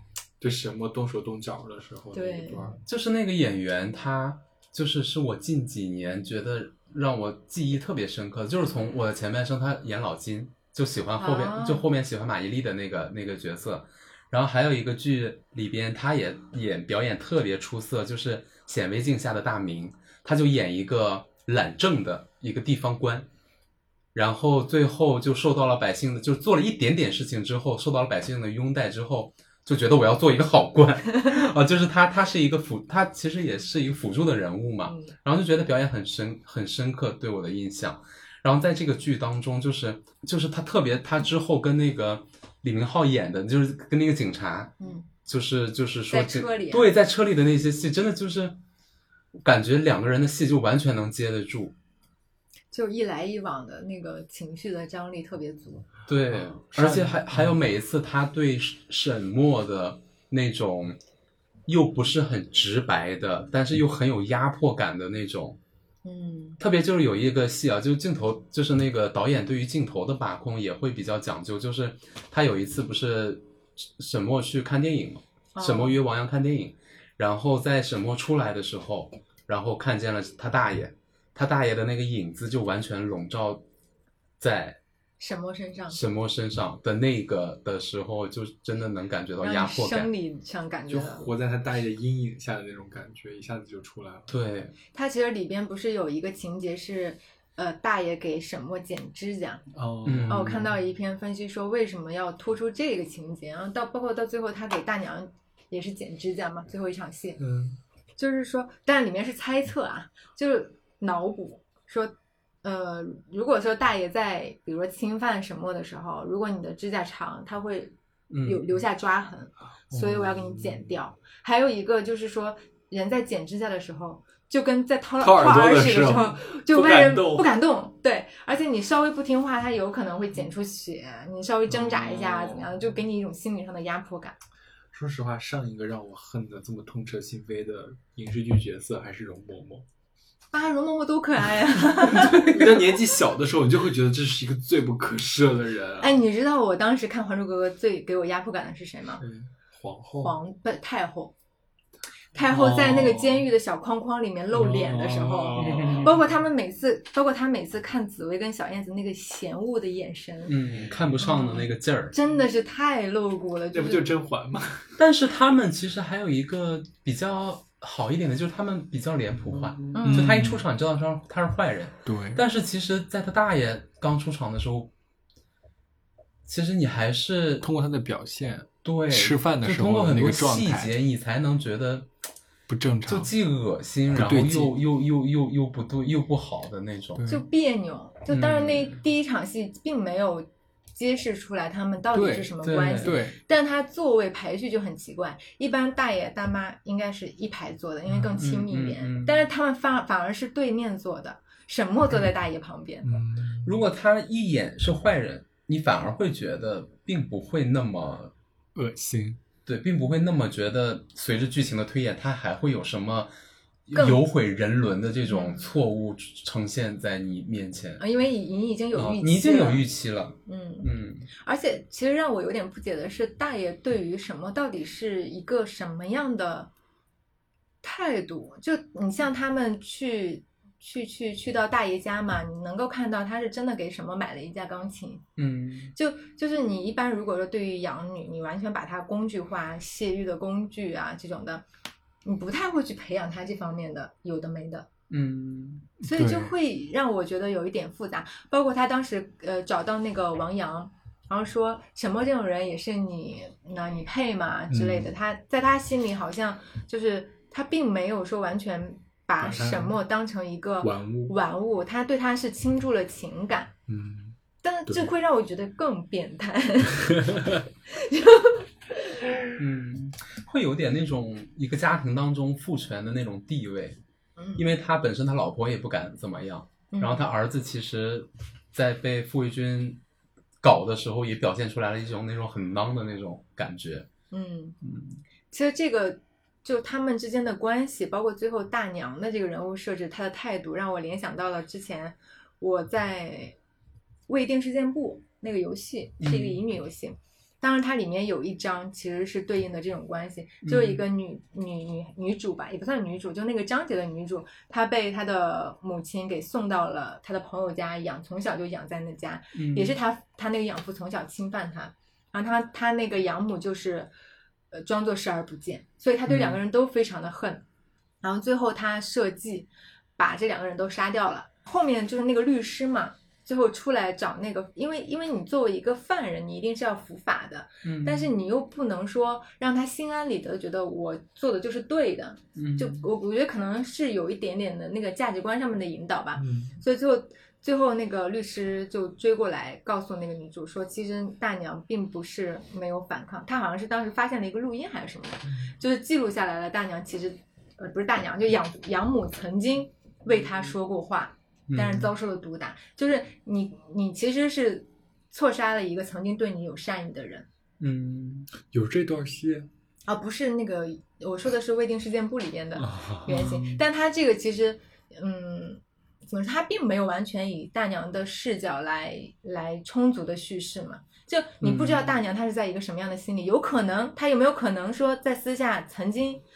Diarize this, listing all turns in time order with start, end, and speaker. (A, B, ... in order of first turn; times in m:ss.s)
0:00.4-0:02.8 A
0:02.1-0:02.7 B
0:02.9-0:23.3 C
0:11.2-0:11.9 B
0:24.1-0:44.7 C
0:34.8-0:35.1 B
0:44.8-0:45.1 B
0:45.2-0:48.6 C
0:46.1-0:46.9 B
0:49.4-0:51.8 C
0:52.7-0:55.9 B
0:56.1-1:01.0 C
0:56.6-0:57.6 A
1:01.7-1:05.6 C
1:06.0-1:06.6 B
1:06.6-1:23.6 C
1:15.6-1:16.0 B
1:24.4-1:24.8 C
1:25.2-1:26.0 B
1:25.9-1:30.1 C
1:29.4-1:31.3 B
1:30.9-1:34.4 A
1:34.3-1:34.8 C
1:34.9-1:39.6 B
1:39.7-1:40.7 A
1:40.1-1:40.7 C
1:40.3-1:47.4 B
1:47.4-1:47.8 A
1:48.2-2:14.4 B
1:58.3-1:58.6 C
1:59.9-2:00.9 A
2:05.2-2:07.6 A
2:11.7-2:12.7 A
2:14.9-2:19.8 A
2:20.5-2:22.8 B
2:22.1-2:22.9 C
2:22.1-2:26.2 A
2:26.0-2:29.2 B
2:29.2-2:30.4 A
2:30.2-2:31.3 B
2:32.3-2:40.6 B
2:32.5-2:33.5 A
2:34.5-2:36.2 A
2:35.6-2:36.1 C
2:40.5-2:42.2 C
2:41.2-2:44.1 B
2:43.7-2:45.0 A
2:45.0-2:54.9 C
2:49.9-2:50.3 B
2:50.0-2:50.7 A
2:52.1-2:52.4 A
2:56.5-2:57.7 C
2:57.6-3:00.9 A
2:58.8-3:02.1 C
3:02.7-3:03.3 A
3:03.1-3:07.2 C
3:04.1-3:04.8 A
3:07.2-3:07.4 A
3:07.3-3:23.1 B
3:08.3-3:09.0 C
3:12.1-3:13.4 A
3:12.6-3:13.2 C
3:18.1-3:18.4 A
3:18.4-3:19.5 C
3:23.0-3:23.8 A
3:23.6-3:28.3 C
3:28.8-3:29.4 A
3:29.7-3:33.3 C
3:33.9-3:38.0 C
3:33.9-3:34.2 B
3:35.3-3:35.6 B
3:38.0-3:39.8 B
3:38.9-3:41.3 C
3:40.5-3:46.7 B
3:47.8-3:55.2 B
3:55.4-3:55.9 C
3:56.0-4:01.6 B
4:02.2-4:04.9 B
4:05.1-4:05.9 C
4:06.0-4:23.7 B
4:06.1-4:06.5 A
4:14.7-4:15.1 A
4:19.4-4:20.0 A
4:20.8-4:21.4 A
4:23.9-4:24.4 A
4:24.6-4:29.2 B
4:27.2-4:27.6 A
4:29.6-4:34.0 C
4:34.6-4:40.0 C
4:36.9-4:37.3 B
4:40.6-4:44.1 C
4:44.3-4:44.8 B
4:44.8-4:45.2 C
4:45.5-4:53.6 B
4:54.3-5:14.1 B
4:56.2-4:56.6 C
5:00.6-5:01.0 C
5:09.6-5:10.0 C
5:14.7-5:17.6 B
5:16.3-5:16.6 C
5:18.2-5:57.5 B
5:27.8-5:28.3 C
5:32.6-5:33.1 C
5:36.4-5:36.8 A
5:51.7-5:52.1 C
5:57.8-5:58.5 C
5:58.7-5:59.7 A
6:00.1-6:16.4 B
6:02.8-6:03.4 A
6:03.3-6:03.8 C
6:11.6-6:12.1 C